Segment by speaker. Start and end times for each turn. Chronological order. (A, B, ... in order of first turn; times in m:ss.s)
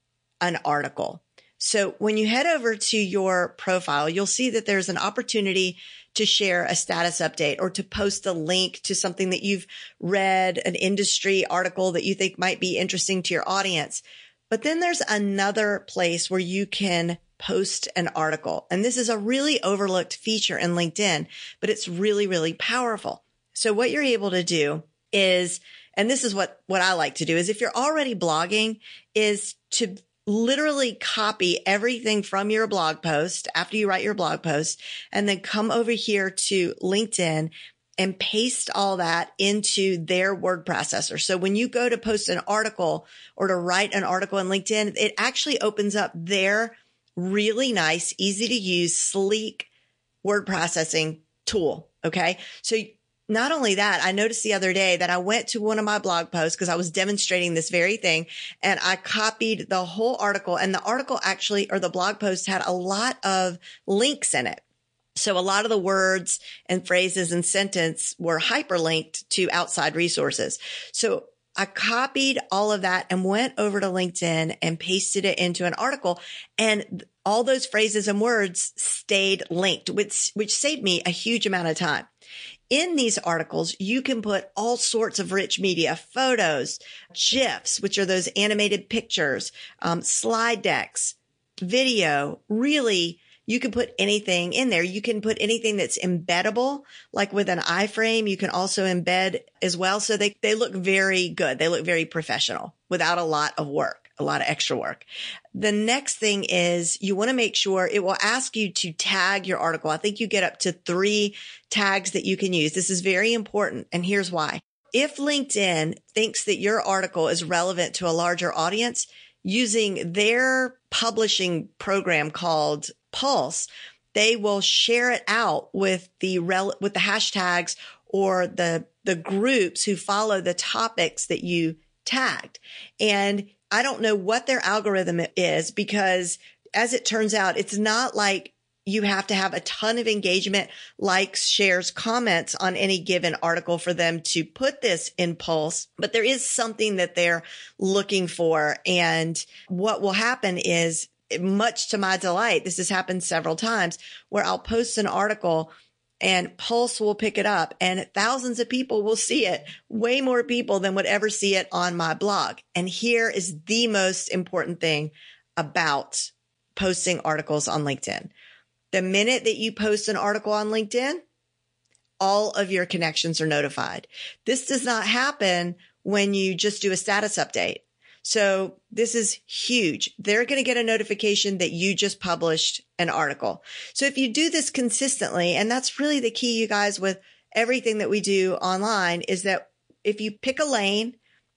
0:00.4-0:49.7 A
0:50.2-1:04.6 A
1:05.2-1:22.1 A
1:22.7-2:48.3 A
2:48.9-2:51.2 A
2:52.2-3:11.2 A